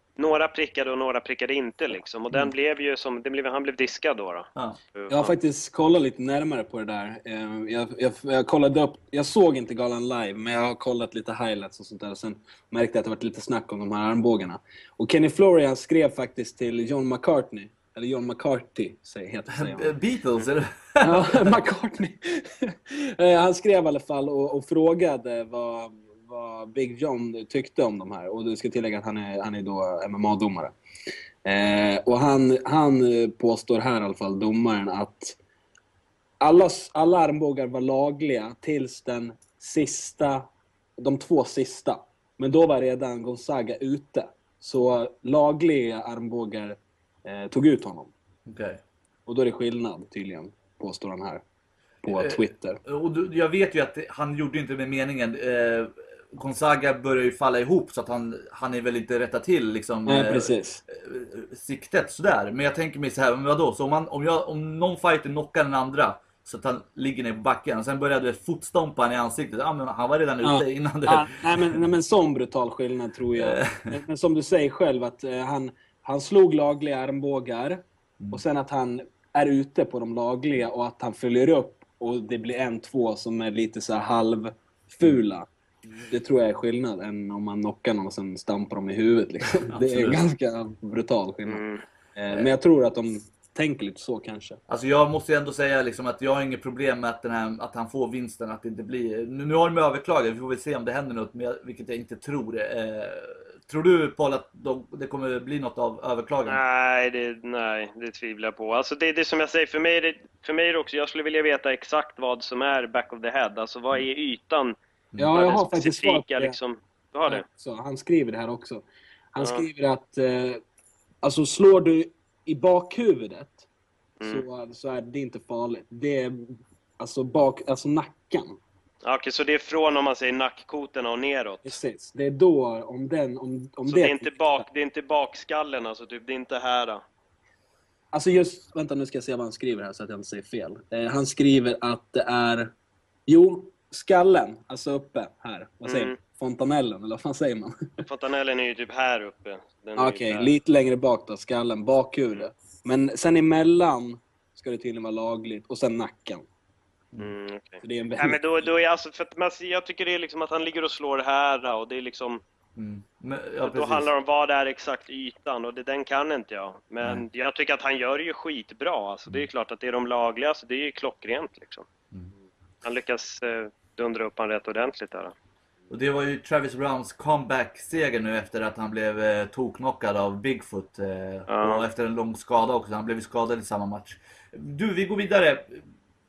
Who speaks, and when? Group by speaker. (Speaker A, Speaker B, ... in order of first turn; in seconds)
Speaker A: 0.2-5.3, 91.5-91.8, 106.5-114.8, 115.3-117.4, 119.4-119.7, 129.0-131.8, 133.9-137.0, 145.8-146.2, 148.0-150.5, 157.2-162.4, 163.6-171.8, 172.8-175.3, 181.5-181.9
Speaker B: 5.1-19.9, 21.0-30.7, 31.4-35.4, 36.4-40.5, 41.0-48.1, 49.3-51.4, 52.0-52.8, 60.1-60.8, 70.4-85.5, 86.1-91.6, 92.1-94.6, 115.2-116.6, 117.3-120.6, 121.2-123.6, 124.2-128.6, 131.6-134.7, 138.1-142.7, 143.3-147.8, 150.0-156.4, 157.8-158.4
Speaker C: 19.5-21.5, 48.5-48.8, 52.1-71.8, 73.4-74.0, 89.7-90.2, 94.7-106.6, 162.8-164.1, 175.9-185.8